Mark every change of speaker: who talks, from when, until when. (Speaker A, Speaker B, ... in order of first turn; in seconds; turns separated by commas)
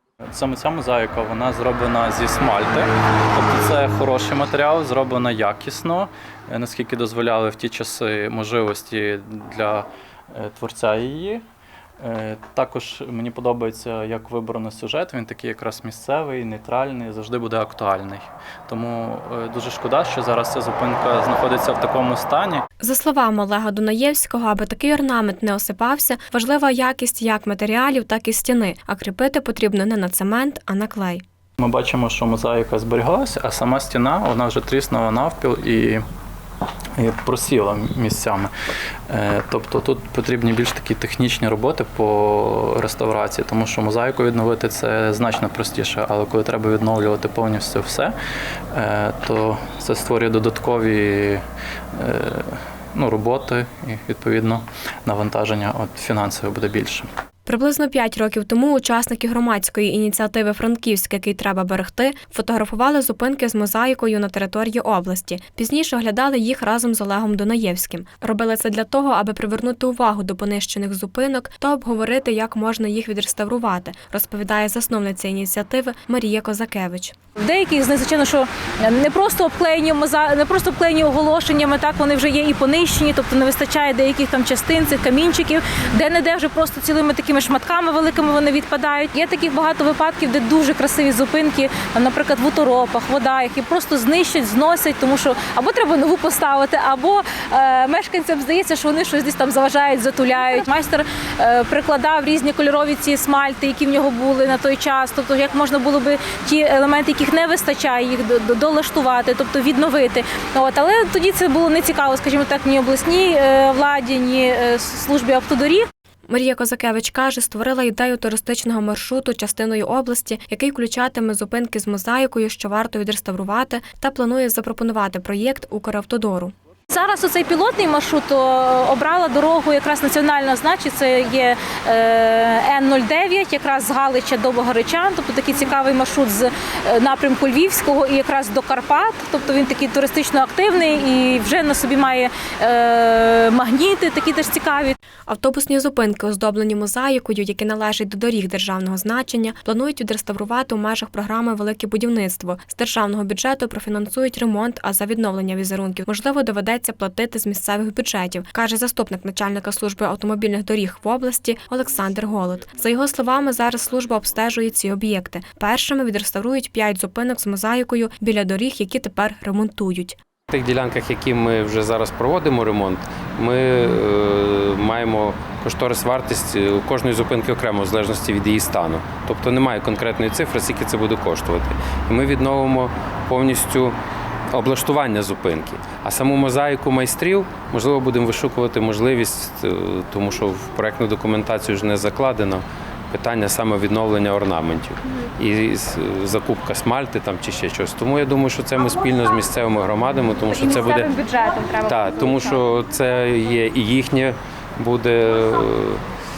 Speaker A: 0.3-11.4, Speaker A: 12.0-22.6, Speaker B: 22.8-31.2, Speaker A: 31.6-36.0, Speaker A: 37.0-38.5, Speaker A: 39.1-48.1, Speaker A: 48.7-51.4, Speaker A: 51.9-57.1, Speaker B: 57.5-77.2, Speaker C: 77.4-115.9, Speaker B: 116.3-126.5, Speaker C: 126.9-144.9, Speaker B: 145.3-170.2, Speaker D: 170.5-184.0, Speaker D: 184.5-201.1, Speaker C: 200.5-202.6, Speaker D: 201.8-206.0